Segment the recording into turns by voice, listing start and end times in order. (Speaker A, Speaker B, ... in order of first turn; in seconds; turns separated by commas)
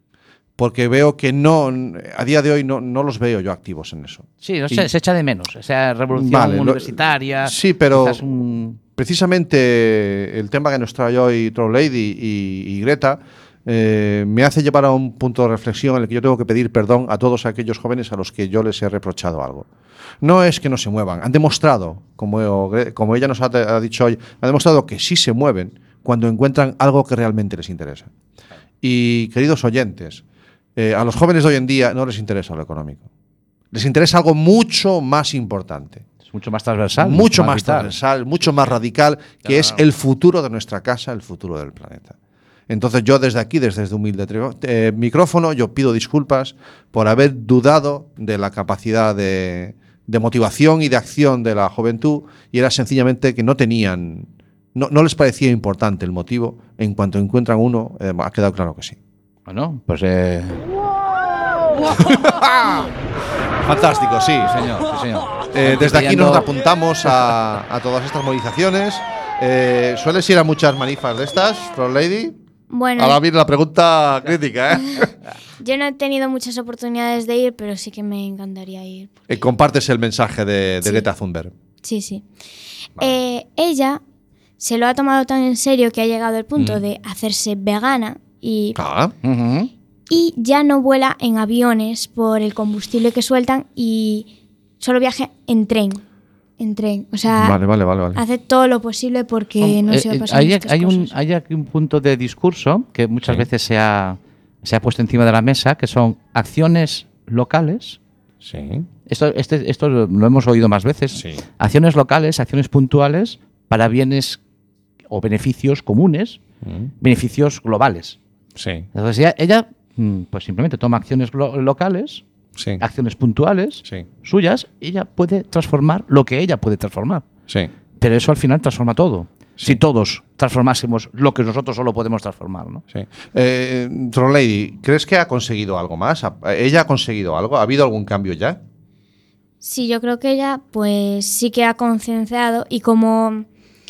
Speaker A: 0.6-4.9, Speaker B: 4.4-8.8, Speaker A: 6.1-8.2, Speaker A: 9.0-19.7, Speaker A: 20.2-28.1, Speaker A: 28.8-30.2, Speaker A: 30.8-33.0, Speaker A: 33.7-36.1, Speaker B: 36.3-38.0, Speaker A: 37.0-42.1, Speaker B: 39.5-39.8, Speaker A: 42.7-59.0, Speaker B: 59.5-60.6, Speaker A: 62.0-62.9, Speaker A: 63.6-64.6, Speaker B: 64.4-66.5, Speaker A: 65.5-72.3, Speaker B: 67.0-67.4, Speaker C: 72.7-73.2, Speaker A: 73.0-75.1, Speaker C: 75.6-79.4, Speaker A: 79.3-81.5, Speaker C: 81.8-82.2, Speaker C: 83.0-84.0, Speaker C: 84.6-88.8, Speaker A: 88.8-89.1, Speaker B: 89.2-89.7, Speaker C: 90.1-94.3, Speaker C: 94.8-96.0, Speaker C: 96.6-97.6, Speaker A: 97.3-98.2, Speaker C: 98.2-101.1, Speaker B: 99.6-108.0, Speaker A: 108.4-108.9, Speaker B: 109.1-114.4, Speaker A: 111.2-111.4, Speaker B: 115.1-116.4, Speaker A: 116.6-116.9, Speaker B: 117.0-118.2, Speaker A: 118.6-118.9, Speaker B: 118.9-122.2, Speaker B: 122.8-127.3, Speaker B: 128.0-132.8, Speaker A: 132.9-138.6, Speaker C: 139.6-143.5